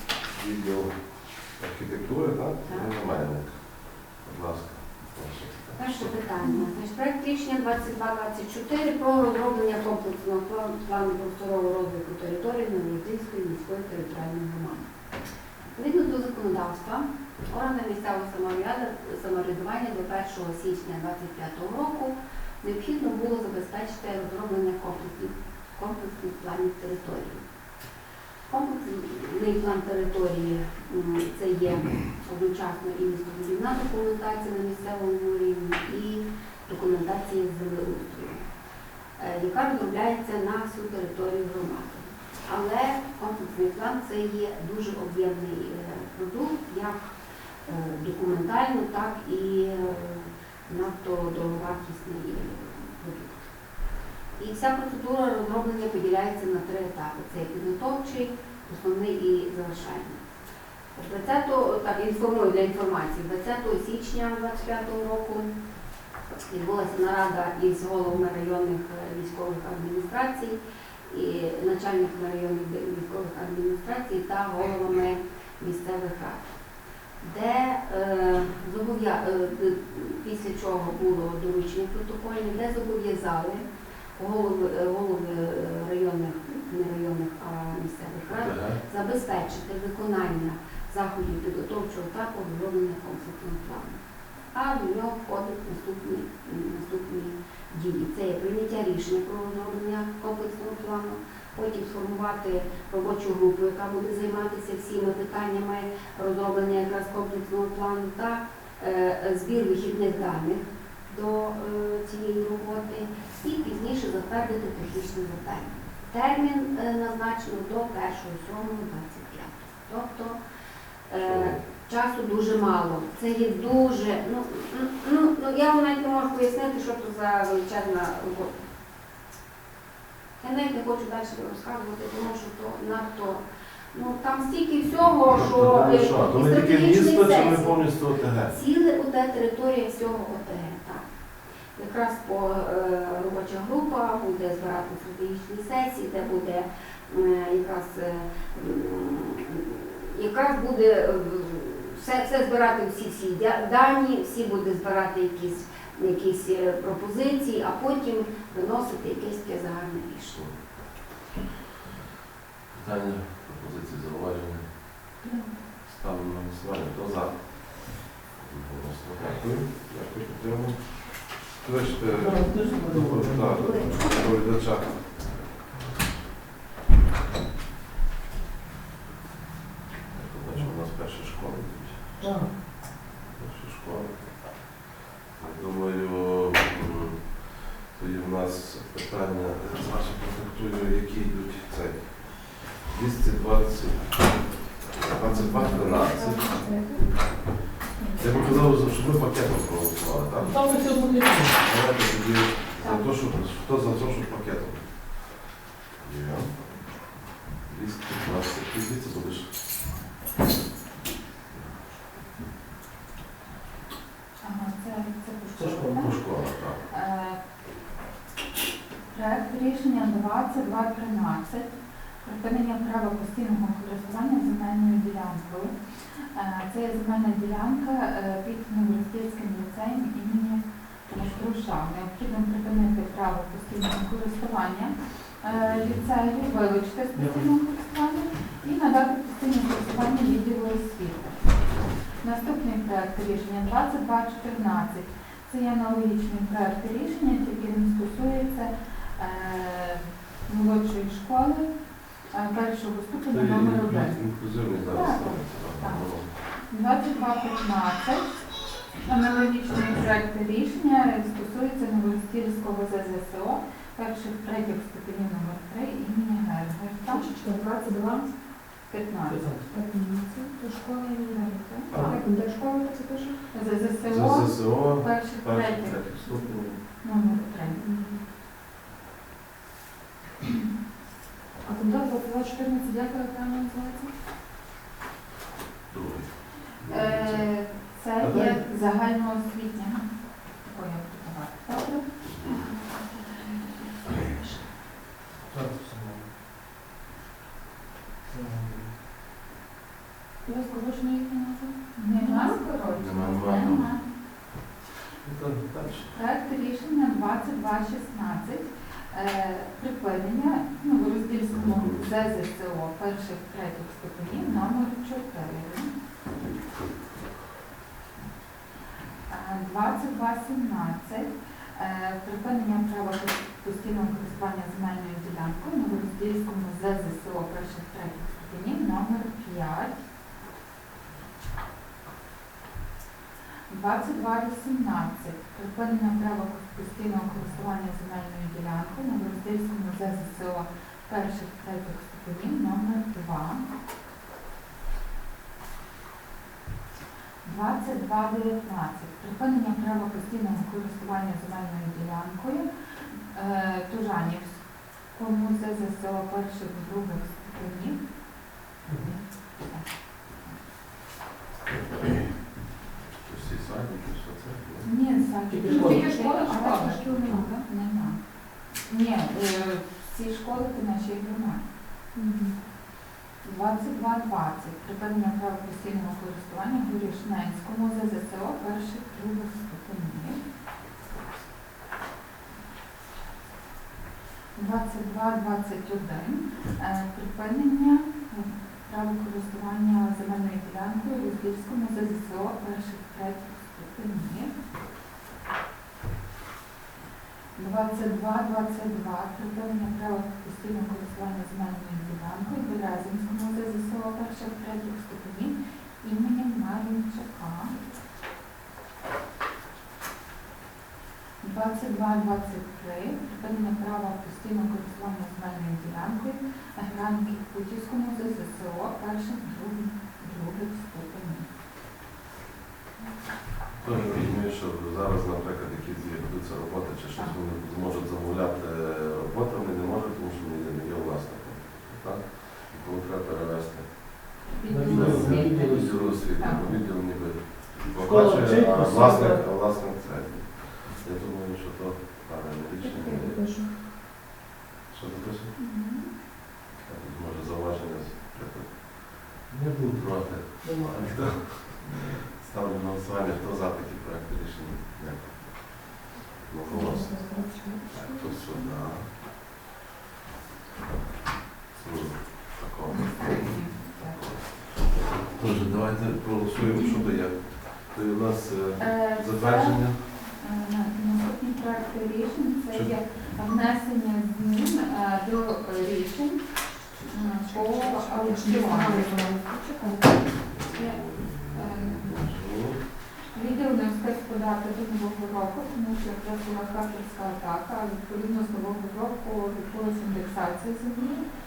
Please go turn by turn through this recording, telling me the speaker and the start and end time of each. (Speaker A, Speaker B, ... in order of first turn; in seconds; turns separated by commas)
Speaker A: 0.3-6.2, Speaker B: 2.6-2.9, Speaker B: 5.8-14.8, Speaker C: 6.4-6.7, Speaker B: 15.7-27.4, Speaker B: 28.5-38.4, Speaker B: 39.2-47.1, Speaker B: 47.6-53.5, Speaker B: 54.4-60.2, Speaker B: 60.9-65.5, Speaker B: 66.5-76.4, Speaker B: 77.2-83.6, Speaker B: 84.2-94.0, Speaker A: 88.3-88.8, Speaker B: 94.5-120.4, Speaker B: 121.1-128.5, Speaker A: 121.2-121.6, Speaker B: 130.4-137.8, Speaker A: 135.0-138.5, Speaker B: 138.5-141.1, Speaker B: 141.7-160.4, Speaker A: 162.7-164.7, Speaker A: 165.9-175.7, Speaker D: 172.1-173.9, Speaker B: 173.6-174.3, Speaker A: 180.1-182.2, Speaker D: 182.2-182.5, Speaker A: 183.3-184.6, Speaker A: 185.3-196.4, Speaker C: 195.3-197.2, Speaker E: 195.4-195.9, Speaker E: 198.0-198.4, Speaker A: 198.2-200.5, Speaker D: 200.4-201.5, Speaker A: 201.6-205.4, Speaker E: 202.8-203.1, Speaker A: 206.0-209.5, Speaker A: 211.5-211.8, Speaker E: 214.4-216.2, Speaker D: 215.6-216.0, Speaker A: 215.8-216.8, Speaker E: 216.9-217.4, Speaker E: 219.1-241.4, Speaker A: 235.5-236.0, Speaker D: 237.2-237.4, Speaker E: 242.2-251.7, Speaker E: 252.3-254.2, Speaker A: 253.3-256.3, Speaker E: 254.9-256.1, Speaker E: 256.7-258.4, Speaker E: 259.0-267.3, Speaker C: 267.1-268.3, Speaker E: 268.9-269.5, Speaker D: 269.2-269.7, Speaker C: 269.7-273.4, Speaker E: 271.8-272.2, Speaker A: 271.9-272.2, Speaker E: 273.5-277.8, Speaker A: 274.1-276.8, Speaker C: 277.8-278.2, Speaker C: 281.6-284.1, Speaker A: 285.9-287.5, Speaker E: 286.8-292.0, Speaker A: 288.2-288.6, Speaker A: 292.2-292.7, Speaker C: 292.4-294.6, Speaker D: 295.5-296.3, Speaker D: 298.3-298.9, Speaker C: 300.4-302.6, Speaker E: 302.0-304.0, Speaker A: 302.9-303.9, Speaker A: 305.2-306.1, Speaker E: 306.1-315.9, Speaker A: 311.5-312.1, Speaker E: 319.3-330.0, Speaker E: 333.7-343.6, Speaker E: 347.4-358.0, Speaker D: 358.9-359.2, Speaker A: 361.8-362.3, Speaker A: 363.2-364.9, Speaker E: 364.8-368.2, Speaker D: 365.5-366.1, Speaker C: 365.6-367.6, Speaker E: 368.7-371.6, Speaker C: 372.1-372.5, Speaker E: 373.4-380.4, Speaker E: 384.6-394.5, Speaker E: 397.6-407.8, Speaker E: 411.4-421.5, Speaker A: 423.8-443.6, Speaker E: 434.5-436.8, Speaker D: 434.7-436.6, Speaker D: 437.9-439.4, Speaker C: 442.8-443.7, Speaker A: 444.9-445.5, Speaker E: 445.6-446.1, Speaker A: 446.8-459.1, Speaker D: 449.5-452.2, Speaker C: 456.7-458.6, Speaker A: 461.7-470.0, Speaker E: 462.9-464.2, Speaker E: 466.7-467.1, Speaker E: 468.8-476.4, Speaker E: 477.0-479.1, Speaker C: 477.5-480.2, Speaker A: 480.4-482.8, Speaker E: 480.7-482.2, Speaker E: 483.3-491.2